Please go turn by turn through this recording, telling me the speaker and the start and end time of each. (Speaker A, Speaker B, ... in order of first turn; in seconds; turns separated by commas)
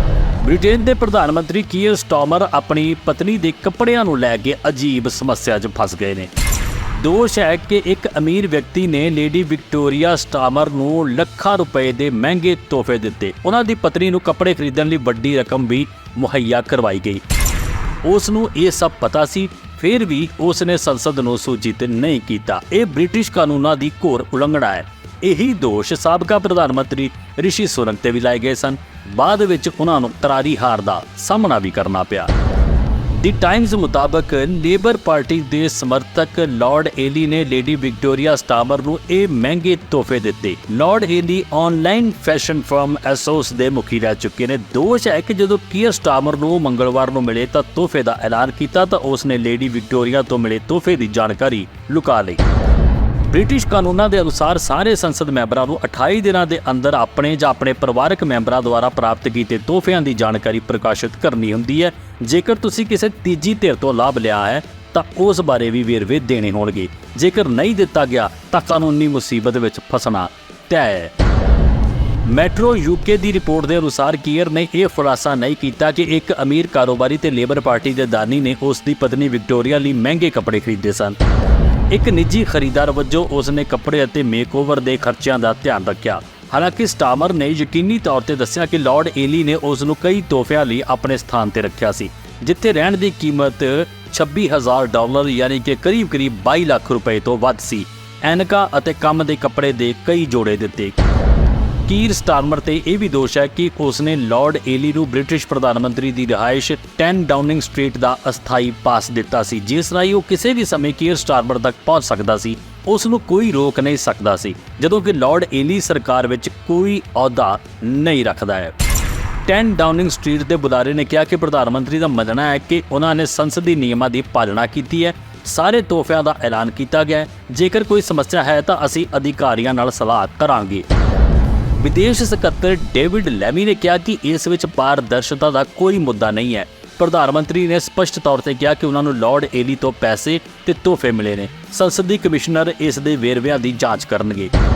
Speaker A: 0.4-6.3, Speaker A: 6.9-17.2, Speaker A: 18.0-32.3, Speaker A: 33.1-52.4, Speaker A: 53.3-71.1, Speaker A: 72.2-81.2, Speaker A: 81.9-101.0, Speaker A: 101.8-118.7, Speaker A: 119.5-130.8, Speaker A: 131.8-144.5